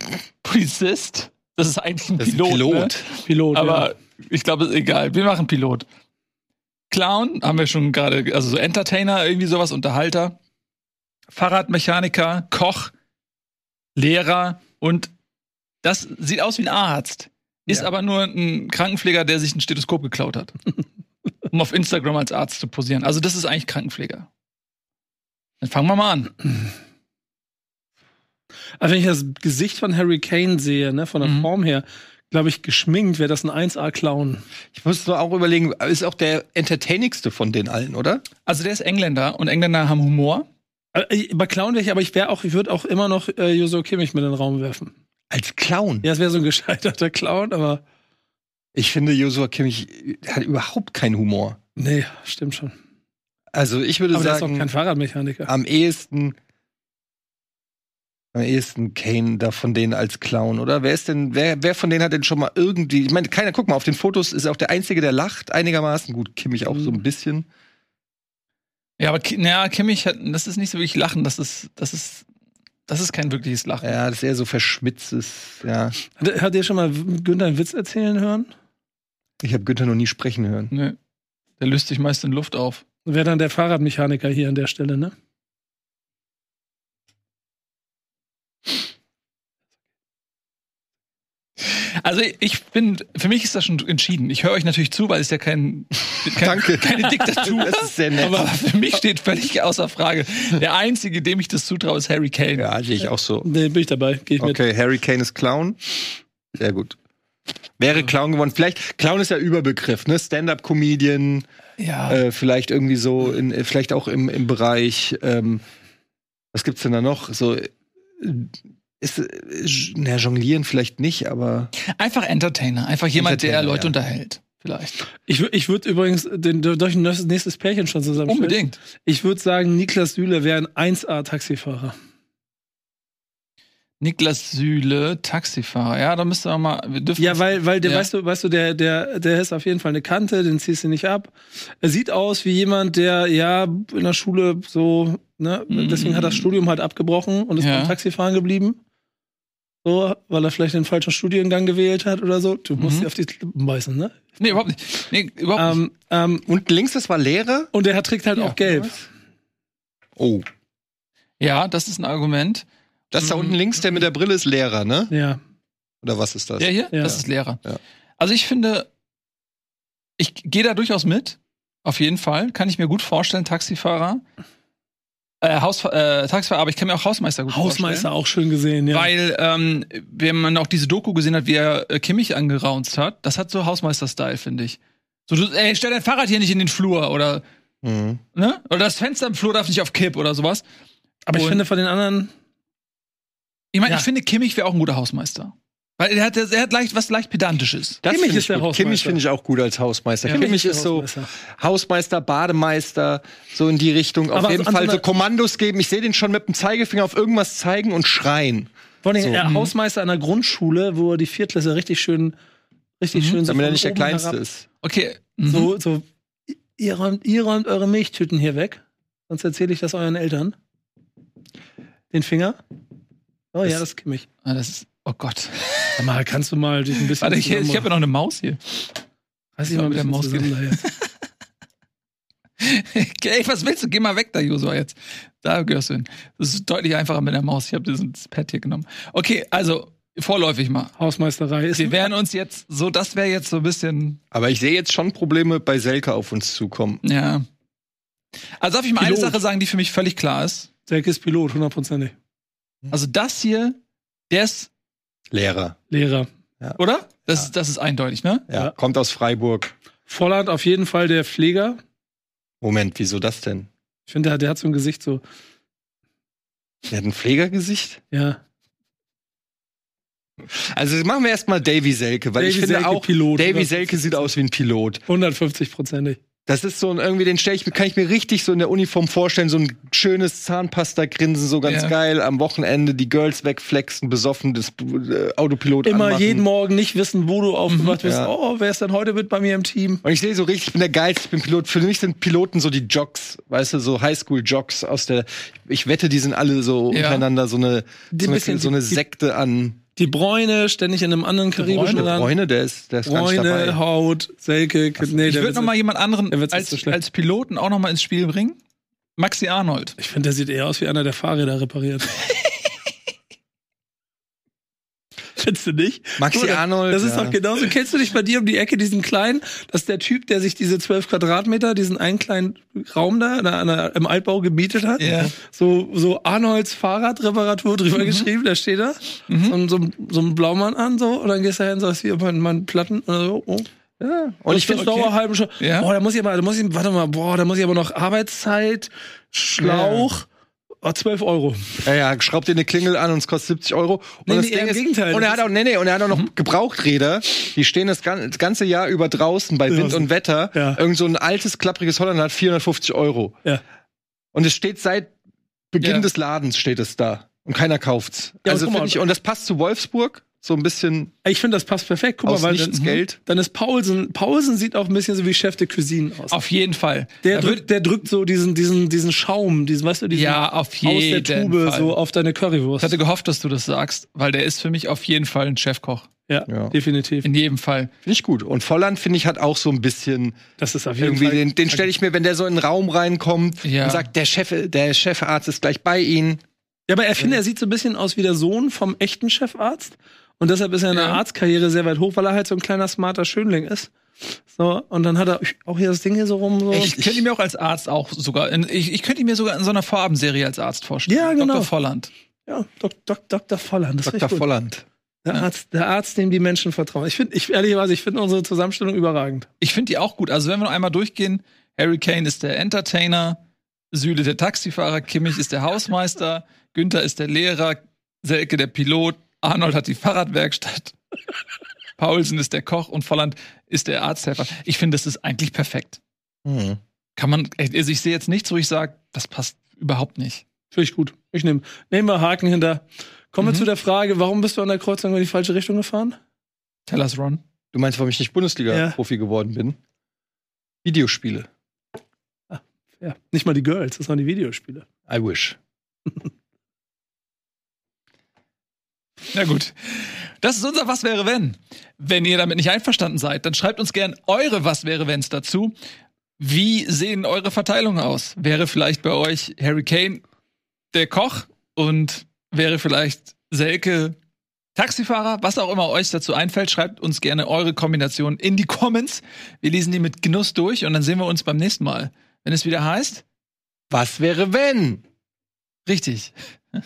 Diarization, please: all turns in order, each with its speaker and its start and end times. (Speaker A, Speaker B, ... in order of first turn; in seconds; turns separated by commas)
Speaker A: 0.4-2.9, Speaker B: 2.2-3.0, Speaker C: 3.2-3.9, Speaker A: 3.5-5.9, Speaker A: 6.9-10.4, Speaker A: 11.3-12.9, Speaker A: 13.9-15.1, Speaker A: 15.8-20.5, Speaker A: 21.5-24.3, Speaker A: 25.6-26.3, Speaker C: 28.8-34.4, Speaker A: 31.2-31.5, Speaker B: 34.7-38.2, Speaker A: 38.5-40.5, Speaker C: 40.9-44.9, Speaker B: 45.3-46.1, Speaker C: 46.0-47.8, Speaker B: 48.7-51.6, Speaker C: 51.8-52.7, Speaker B: 53.5-54.7, Speaker C: 54.1-55.5, Speaker B: 55.5-56.4, Speaker B: 58.3-67.5, Speaker A: 69.0-72.2, Speaker A: 72.9-73.9, Speaker B: 73.8-76.0, Speaker C: 76.2-78.5, Speaker B: 79.4-80.7, Speaker A: 80.7-81.0, Speaker A: 81.6-82.8, Speaker C: 83.0-85.1, Speaker A: 91.6-102.7, Speaker B: 96.3-98.5, Speaker B: 102.5-103.5, Speaker C: 103.4-104.6, Speaker B: 104.4-105.8, Speaker B: 106.5-107.0, Speaker B: 107.8-111.5, Speaker A: 111.8-112.2, Speaker B: 112.1-115.6, Speaker B: 116.5-121.7, Speaker A: 121.8-125.0, Speaker B: 123.1-123.9, Speaker C: 125.3-131.9, Speaker A: 128.2-128.8, Speaker A: 134.0-138.1, Speaker C: 137.2-148.8, Speaker A: 145.7-146.5, Speaker A: 147.6-147.9, Speaker C: 149.8-154.6, Speaker A: 152.8-153.1, Speaker A: 154.4-155.8, Speaker C: 155.5-156.4, Speaker B: 156.5-157.7, Speaker C: 157.7-159.1, Speaker B: 160.2-160.4, Speaker A: 161.4-162.7, Speaker B: 163.1-165.1, Speaker A: 163.2-163.6, Speaker C: 165.1-165.4, Speaker B: 166.0-167.8, Speaker A: 166.6-167.6, Speaker A: 168.2-168.9, Speaker A: 170.2-174.2, Speaker A: 175.4-178.1, Speaker C: 177.5-179.1, Speaker A: 178.9-187.4, Speaker B: 187.8-188.2, Speaker A: 188.3-190.6, Speaker C: 191.3-192.3, Speaker A: 191.3-191.6, Speaker A: 193.7-198.0, Speaker B: 198.0-209.4, Speaker C: 198.1-199.2, Speaker C: 200.3-201.3, Speaker C: 204.3-205.0, Speaker C: 209.0-212.3, Speaker A: 209.4-209.7, Speaker C: 213.0-214.4, Speaker A: 213.1-213.4, Speaker B: 213.4-214.7, Speaker A: 214.8-215.7, Speaker C: 215.4-216.0, Speaker C: 216.8-220.5, Speaker C: 222.1-222.6, Speaker C: 223.5-224.2, Speaker A: 224.4-226.0, Speaker C: 226.0-227.9, Speaker A: 227.2-228.8, Speaker C: 229.6-230.8, Speaker A: 229.7-231.1, Speaker A: 232.6-240.9, Speaker C: 241.0-242.1, Speaker A: 241.7-244.2, Speaker B: 244.3-247.0, Speaker A: 247.0-247.4, Speaker A: 248.6-250.7, Speaker C: 249.0-249.4, Speaker C: 250.9-252.1, Speaker A: 252.9-253.8, Speaker A: 254.3-254.7, Speaker B: 255.3-255.8, Speaker C: 255.9-256.3, Speaker A: 256.8-258.4, Speaker B: 258.5-259.7, Speaker C: 260.1-261.8, Speaker B: 262.6-263.7, Speaker C: 264.1-265.2, Speaker B: 266.9-268.0, Speaker C: 268.1-268.4, Speaker B: 270.4-275.0, Speaker C: 272.4-274.3, Speaker C: 275.1-276.2, Speaker B: 276.4-286.4, Speaker A: 281.6-281.9, Speaker C: 285.8-290.0, Speaker A: 287.7-288.0, Speaker B: 288.0-288.3, Speaker B: 290.0-299.8, Speaker A: 296.9-297.2, Speaker C: 298.1-299.0, Speaker C: 299.9-302.3, Speaker A: 301.6-302.1, Speaker B: 301.7-303.8, Speaker C: 303.0-305.7, Speaker A: 305.2-308.6, Speaker C: 306.3-307.0, Speaker A: 309.1-309.9, Speaker C: 310.0-312.1, Speaker C: 315.4-333.7, Speaker B: 316.2-317.4, Speaker A: 325.0-325.3, Speaker A: 328.0-328.3, Speaker A: 329.3-329.6, Speaker B: 334.0-335.0, Speaker C: 334.5-340.3, Speaker A: 334.9-335.9, Speaker B: 339.6-340.1, Speaker C: 340.8-341.8, Speaker B: 341.8-353.4, Speaker C: 344.2-345.4, Speaker C: 349.7-350.8, Speaker B: 354.3-355.1, Speaker B: 355.7-361.1, Speaker A: 355.8-356.1, Speaker C: 358.4-359.0, Speaker C: 361.2-366.4, Speaker B: 362.2-363.2, Speaker A: 366.3-367.6, Speaker C: 367.2-373.0, Speaker A: 370.1-371.9, Speaker A: 372.8-376.1, Speaker C: 376.3-377.3, Speaker B: 376.5-376.7, Speaker A: 377.2-377.9, Speaker B: 378.0-380.4, Speaker C: 380.6-381.9, Speaker B: 381.0-386.4, Speaker A: 383.6-384.1, Speaker C: 386.9-393.9, Speaker A: 390.9-391.2, Speaker C: 394.5-397.1, Speaker A: 396.7-402.1, Speaker C: 401.1-401.7, Speaker C: 402.5-404.4, Speaker B: 404.0-404.8, Speaker C: 405.2-409.5, Speaker A: 409.6-413.4, Speaker A: 413.9-420.9, Speaker A: 422.0-426.0, Speaker B: 426.4-426.8, Speaker A: 427.1-430.4, Speaker C: 430.7-436.2, Speaker A: 433.4-433.7, Speaker A: 436.9-437.4, Speaker B: 437.7-439.8, Speaker C: 438.7-439.0, Speaker B: 440.8-441.5, Speaker C: 442.5-444.8, Speaker B: 445.1-445.6, Speaker A: 449.3-455.7, Speaker A: 456.4-460.2, Speaker A: 460.9-464.2, Speaker A: 464.8-473.2, Speaker B: 473.9-475.0, Speaker A: 475.9-476.3